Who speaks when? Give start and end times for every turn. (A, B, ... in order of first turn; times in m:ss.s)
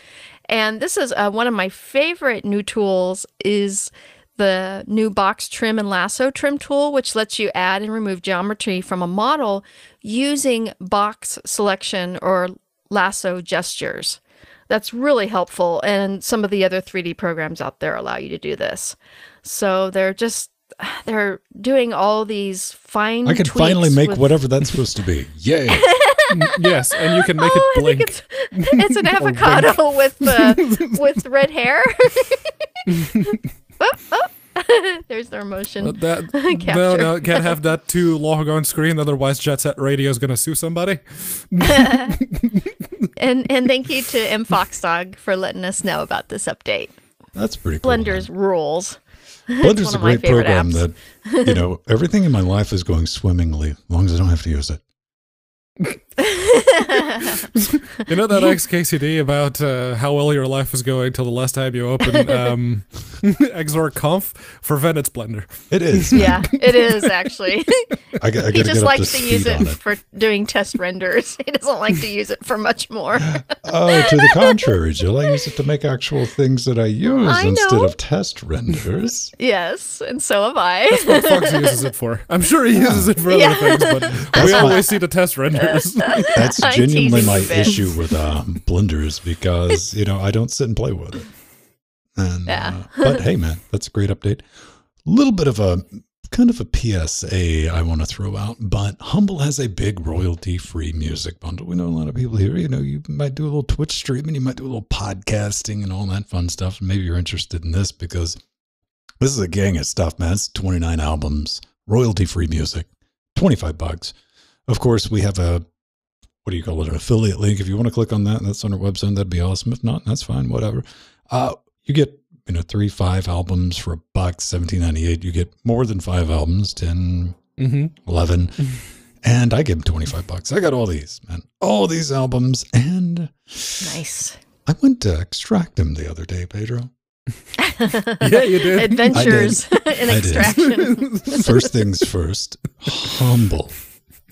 0:00.5-0:24.4 A
0:23.2-0:25.9 B
0:25.7-0:37.6 A
0:26.3-0:31.0 C
0:32.9-0:33.3 C
0:35.8-0:42.7 C
0:41.6-0:42.1 A
0:43.2-0:46.9 A
0:47.3-0:48.3 B
0:47.8-0:49.0 A
0:49.5-0:51.6 A
0:49.6-0:54.8 B
0:56.2-0:57.4 A
0:57.6-1:07.0 C
1:02.1-1:02.4 A
1:05.7-1:06.5 B
1:06.1-1:07.9 A
1:08.2-1:09.8 B
1:08.5-1:14.7 A
1:13.3-1:19.3 B
1:17.2-1:17.9 A
1:19.4-1:21.8 A
1:20.9-1:26.4 C
1:22.7-1:23.1 B
1:23.3-1:25.0 A
1:24.3-1:24.8 B
1:25.6-1:27.9 A
1:26.3-1:31.3 B
1:32.2-1:34.5 B
1:32.5-1:33.2 A
1:35.0-1:48.4 B
1:49.2-1:54.1 B
1:54.7-1:55.6 B
1:56.4-2:07.4 B
2:07.6-2:07.9 C
2:08.0-2:08.6 B
2:09.2-2:14.0 B
2:13.8-2:14.4 A
2:14.6-2:16.9 B
2:17.6-2:21.7 A
2:18.2-2:19.6 C
2:19.1-2:20.7 B
2:20.5-2:21.5 C
2:21.2-2:23.8 B